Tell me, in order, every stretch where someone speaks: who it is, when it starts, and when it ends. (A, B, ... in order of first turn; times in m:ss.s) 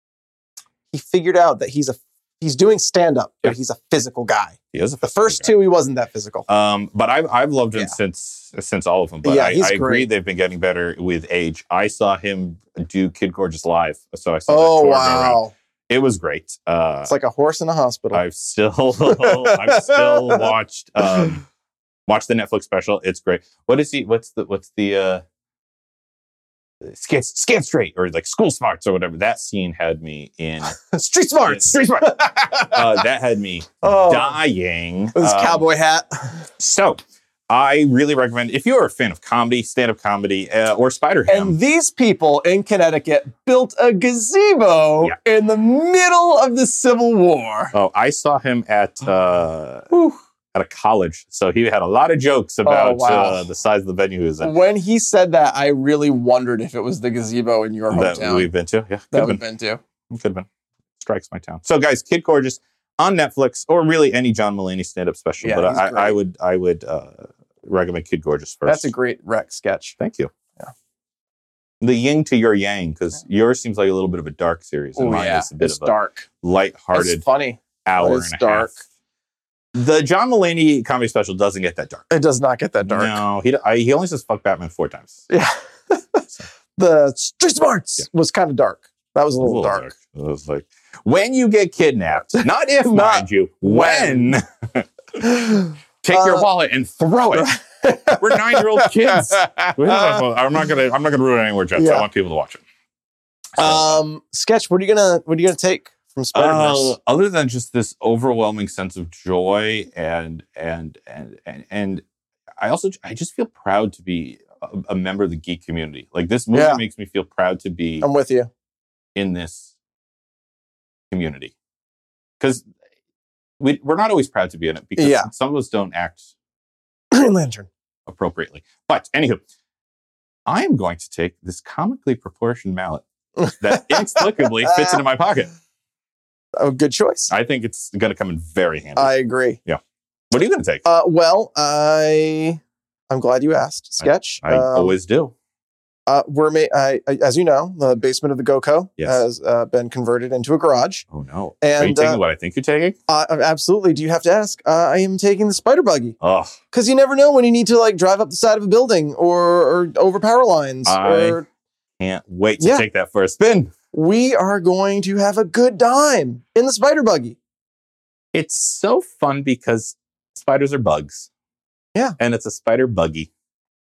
0:00.9-0:06.5 A
0:04.7-0:05.5 B
0:06.5-0:17.1 B
0:09.2-0:10.1 A
0:14.5-0:15.5 A
0:17.1-0:18.2 A
0:18.1-0:21.4 B
0:19.1-0:20.5 A
0:22.1-0:25.2 B
0:26.8-0:30.8 B
0:30.8-0:33.0 A
0:31.5-0:32.0 B
0:32.7-0:35.6 B
0:33.8-0:34.4 A
0:35.2-0:36.4 A
0:36.6-0:41.6 B
0:41.3-0:47.7 A
0:47.7-0:49.9 B
0:49.9-0:50.2 A
0:50.5-0:54.6 B
0:52.6-0:53.5 A
0:54.4-0:58.5 A
0:57.9-0:59.4 B
0:59.1-0:59.8 A
1:00.1-1:00.5 B
1:01.0-1:08.9 B
1:05.4-1:06.2 A
1:08.7-1:10.0 A
1:10.0-1:10.3 B
1:11.8-1:17.2 B
1:15.0-1:16.3 A
1:16.9-1:18.8 A
1:17.8-1:18.7 B
1:19.8-1:22.1 B
1:22.1-1:23.2 A
1:22.8-1:25.2 B
1:25.3-1:26.2 A
1:26.8-1:29.9 A
1:29.4-1:34.9 B
1:32.3-1:34.4 A
1:35.2-1:36.5 A
1:36.0-1:37.5 B
1:37.3-1:40.2 A
1:38.1-1:42.6 B
1:41.8-1:42.1 A
1:43.6-1:46.9 A
1:43.6-1:44.0 B
1:46.3-1:52.0 B
1:52.6-1:58.1 B
1:56.5-1:56.8 A
1:58.0-1:58.5 A
1:59.2-1:59.7 B
2:01.1-2:01.5 B
2:02.4-2:02.7 B
2:03.6-2:06.3 B
2:05.0-2:05.3 A
2:07.1-2:07.7 A
2:08.1-2:09.4 B
2:10.5-2:15.5 B
2:13.4-2:15.0 A
2:16.6-2:17.3 A
2:17.3-2:19.1 B
2:19.0-2:19.6 A
2:20.3-2:20.8 B
2:20.8-2:25.0 A
2:24.0-2:25.3 B
2:26.1-2:31.1 A
2:29.0-2:29.2 B
2:31.1-2:33.0 B
2:31.6-2:32.2 A
2:33.1-2:36.2 A
2:36.2-2:36.6 B
2:36.7-2:41.5 A
2:40.8-2:41.4 B
2:42.0-2:43.7 B
2:42.6-2:42.8 A
2:43.9-2:47.4 A
2:48.3-2:51.3 B
2:52.2-2:53.3 B